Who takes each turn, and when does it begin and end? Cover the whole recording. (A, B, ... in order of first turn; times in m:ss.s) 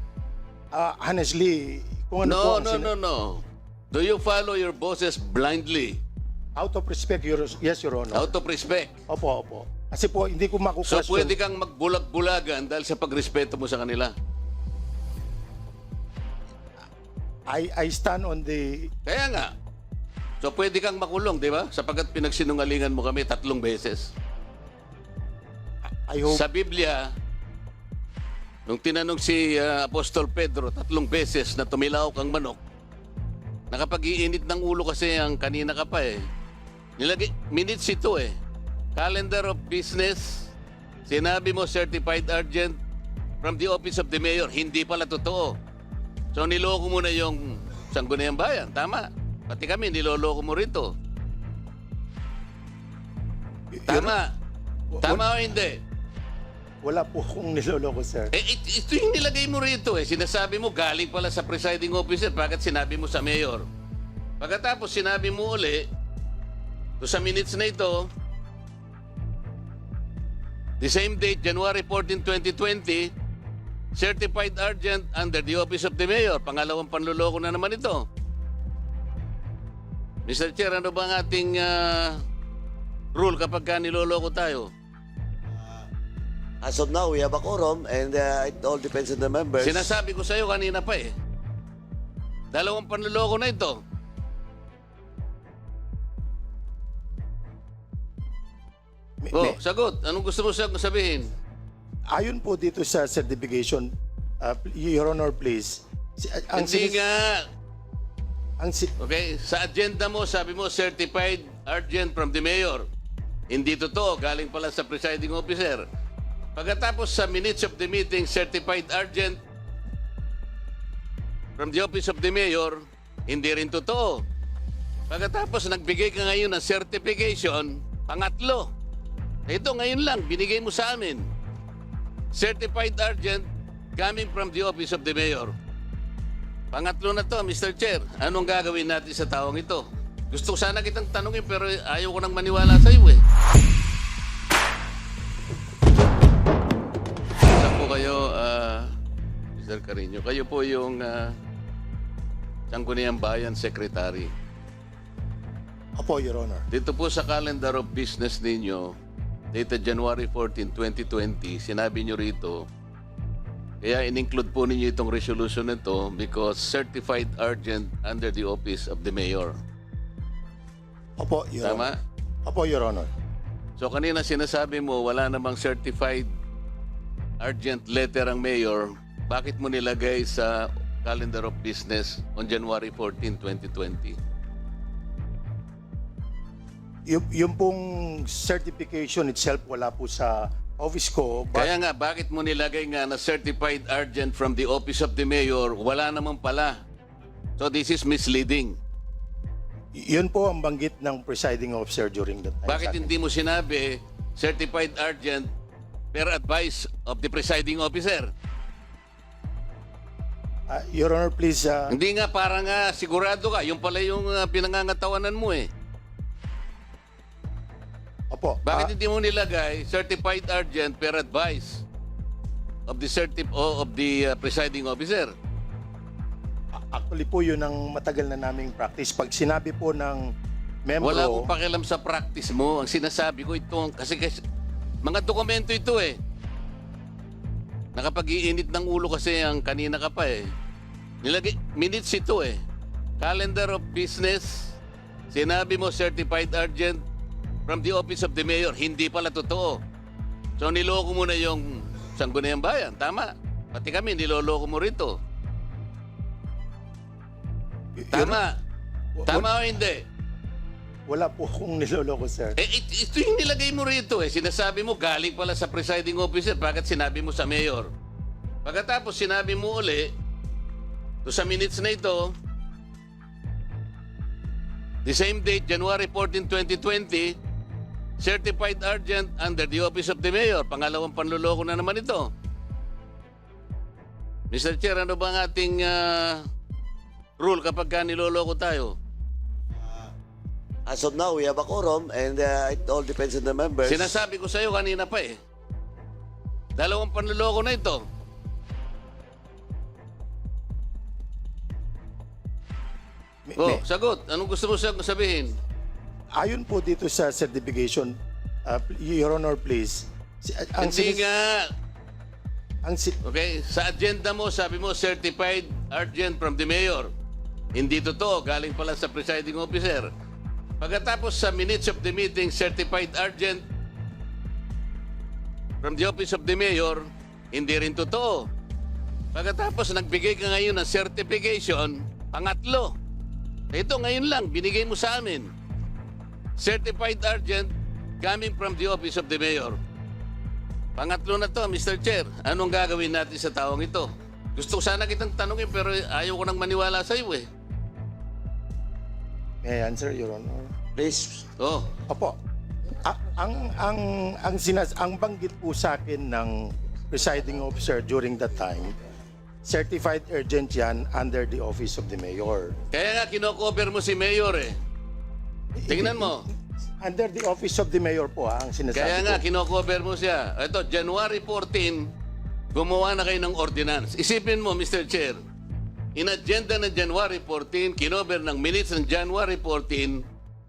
0:00.7-0:02.9 A
0:02.2-0:06.0 B
0:06.6-0:08.3 A
0:08.1-0:09.0 B
0:09.1-0:11.4 A
0:10.8-0:14.1 B
0:17.5-0:18.9 A
0:19.1-0:19.5 B
0:20.4-0:24.1 B
0:26.1-0:26.4 A
0:26.2-0:27.1 B
0:28.7-0:32.6 B
0:33.7-0:36.3 B
0:37.0-0:38.3 B
0:39.0-0:40.5 B
0:41.1-0:42.8 B
0:43.4-0:45.6 B
0:46.3-0:51.0 B
0:53.7-0:54.2 A
0:53.9-0:54.3 B
0:54.9-0:55.3 A
0:55.0-0:55.8 B
0:56.8-0:58.3 A
0:58.3-1:03.7 B
1:04.4-1:05.9 B
1:07.0-1:08.1 B
1:10.8-1:13.1 B
1:14.0-1:18.1 B
1:20.3-1:22.2 B
1:23.2-1:24.7 B
1:26.6-1:30.0 C
1:29.6-1:31.1 B
1:32.5-1:33.8 B
1:39.2-1:39.6 A
1:39.3-1:41.3 B
1:42.1-1:47.0 A
1:46.5-1:47.4 B
1:48.6-1:48.9 A
1:49.0-1:52.9 B
1:53.5-1:55.9 B
1:56.6-1:59.4 B
2:01.6-2:04.3 B
2:05.1-2:08.7 B
2:09.5-2:11.3 B
2:12.3-2:15.6 B
2:16.7-2:23.2 B
2:27.5-2:28.9 B
2:29.6-2:31.4 B
2:32.7-2:34.3 B
2:36.0-2:36.6 A
2:36.7-2:39.0 B
2:39.5-2:42.7 B
2:43.8-2:49.6 B
2:51.2-2:51.9 A
2:51.6-2:52.0 B
2:52.5-2:53.1 A
2:53.8-2:56.3 B
2:57.4-3:04.2 B
3:07.1-3:11.7 A
3:11.5-3:16.8 B
3:17.6-3:18.8 B
3:20.0-3:23.1 A
3:22.7-3:25.5 B
3:26.1-3:28.3 B
3:30.7-3:31.9 A
3:31.9-3:35.7 B
3:38.3-3:38.9 A
3:38.7-3:41.8 B
3:42.9-3:45.3 B
3:46.8-3:50.3 A
3:50.9-3:51.5 A
3:51.0-3:54.4 B
3:55.0-3:56.2 B
3:58.0-4:00.5 B
4:01.2-4:02.6 B
4:03.2-4:04.8 B
4:05.3-4:07.0 B
4:07.7-4:09.8 B
4:10.6-4:15.2 B
4:18.0-4:18.4 A
4:18.1-4:18.6 B
4:19.2-4:19.5 A
4:19.3-4:20.0 B
4:21.1-4:22.6 A
4:22.6-4:27.9 B
4:28.6-4:30.1 B
4:31.2-4:32.4 B
4:35.0-4:37.4 B
4:38.2-4:42.3 B
4:44.5-4:46.5 B
4:47.4-4:49.0 B
4:50.9-4:54.2 C
4:53.9-4:55.4 B
4:56.8-4:58.1 B
5:03.5-5:03.8 A
5:03.6-5:05.6 B
5:06.4-5:11.3 A
5:10.8-5:11.7 B
5:12.8-5:13.2 A
5:13.2-5:17.1 B
5:17.8-5:20.1 B
5:20.8-5:23.7 B
5:25.8-5:28.5 B
5:29.3-5:33.0 B
5:33.7-5:35.5 B
5:36.6-5:39.8 B
5:41.0-5:47.5 B
5:49.6-5:50.7 A
5:51.0-5:51.5 C
5:51.6-5:51.9 B
5:52.1-5:52.4 A
5:53.0-5:59.0 A
5:59.6-6:02.8 A
6:02.9-6:04.8 B
6:05.8-6:06.5 A
6:05.9-6:06.5 B
6:07.0-6:09.4 A
6:08.9-6:12.1 B
6:12.7-6:15.4 B
6:16.2-6:20.2 B